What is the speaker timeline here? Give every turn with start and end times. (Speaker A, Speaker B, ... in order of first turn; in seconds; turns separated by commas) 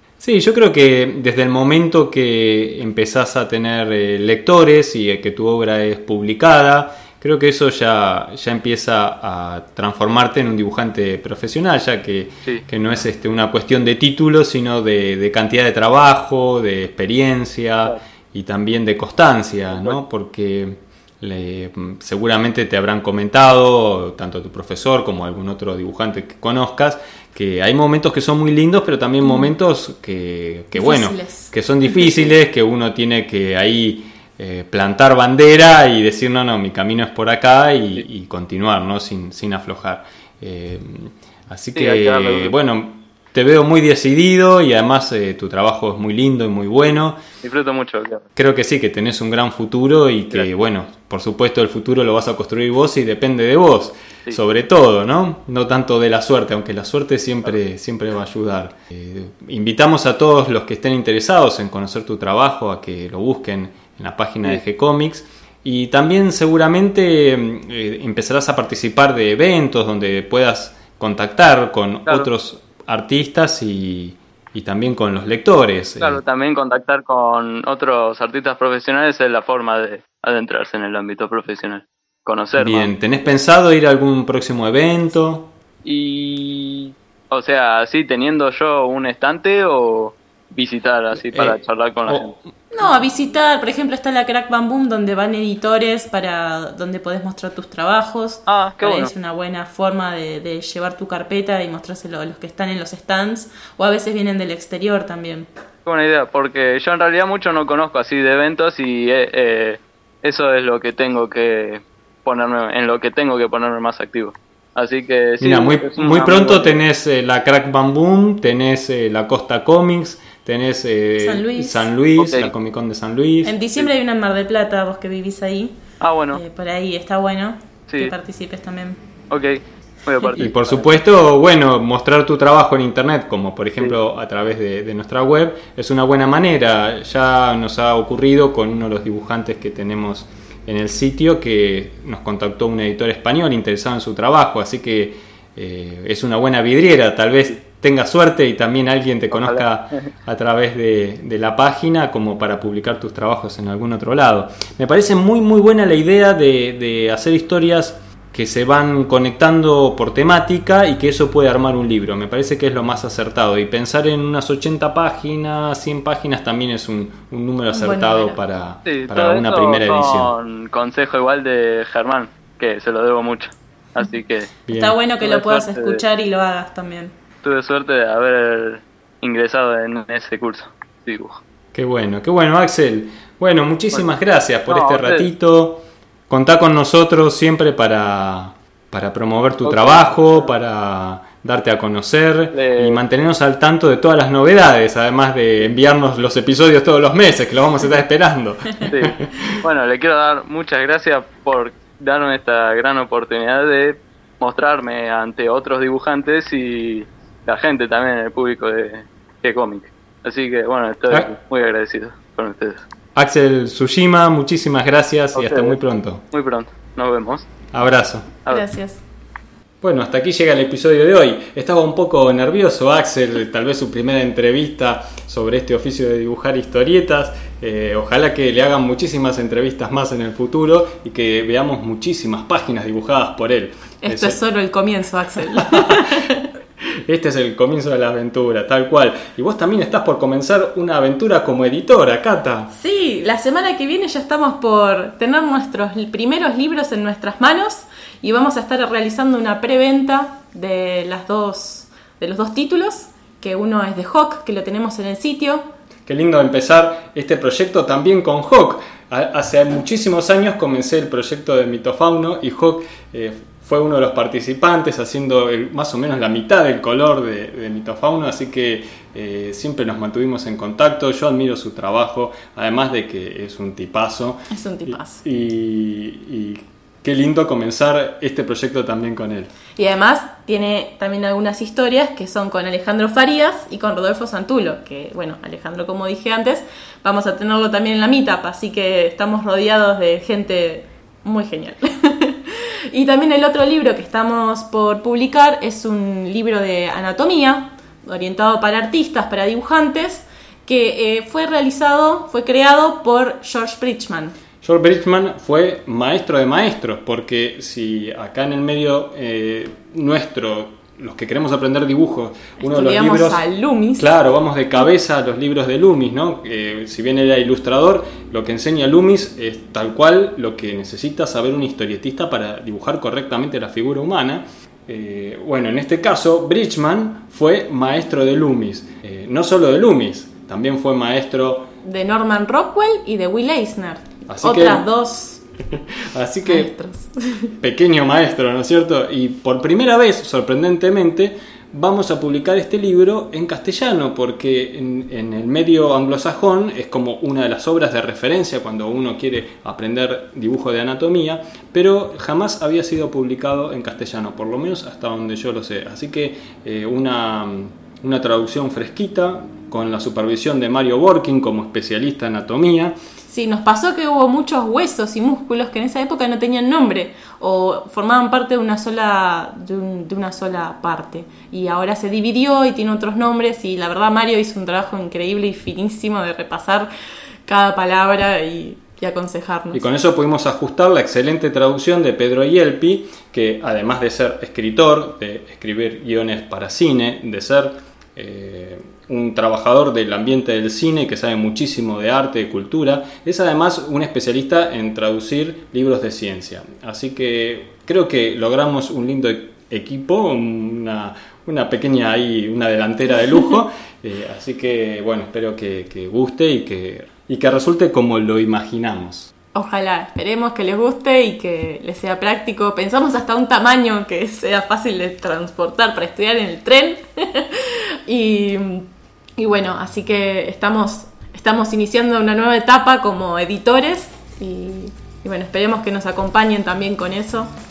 Speaker A: 0.2-47.2, Speaker B: 29.2-29.5, Speaker B: 30.7-32.3, Speaker C: 41.8-42.5, Speaker C: 47.4-48.2, Speaker A: 48.4-76.2, Speaker C: 76.0-83.3, Speaker A: 82.6-85.5, Speaker C: 85.8-92.3, Speaker A: 91.2-93.0, Speaker B: 92.7-105.5, Speaker C: 98.5-99.1, Speaker C: 105.9-116.8, Speaker A: 115.4-123.9, Speaker B: 121.2-121.9, Speaker C: 122.2-122.5, Speaker B: 123.4-125.8, Speaker C: 126.0-126.4, Speaker B: 126.3-129.0, Speaker C: 129.3-130.9, Speaker B: 130.2-130.5, Speaker A: 130.4-170.3, Speaker C: 149.3-150.1, Speaker B: 167.7-168.4, Speaker C: 168.9-174.5, Speaker A: 174.7-175.0, Speaker B: 174.7-177.1, Speaker C: 175.2-176.0, Speaker C: 177.4-181.4, Speaker A: 181.7-199.6, Speaker C: 184.7-185.3, Speaker C: 189.6-190.6, Speaker C: 192.5-193.0, Speaker C: 198.9-212.9, Speaker A: 213.2-216.2, Speaker C: 215.3-215.8, Speaker C: 216.3-217.5, Speaker A: 217.7-218.4, Speaker B: 218.5-219.0, Speaker A: 219.8-234.4, Speaker B: 234.0-236.5, Speaker A: 235.6-236.0, Speaker A: 237.1-242.7, Speaker B: 242.7-255.6, Speaker A: 256.1-279.5, Speaker B: 274.5-275.2, Speaker B: 279.8-304.4, Speaker A: 304.6-313.4, Speaker B: 312.6-314.1, Speaker A: 314.0-331.7, Speaker B: 331.8-335.4, Speaker A: 334.3-334.9, Speaker A: 335.7-336.7, Speaker B: 336.4-337.5, Speaker A: 337.6-362.9, Speaker B: 363.3-376.9, Speaker B: 377.5-379.9, Speaker A: 379.7-409.3, Speaker B: 409.5-427.5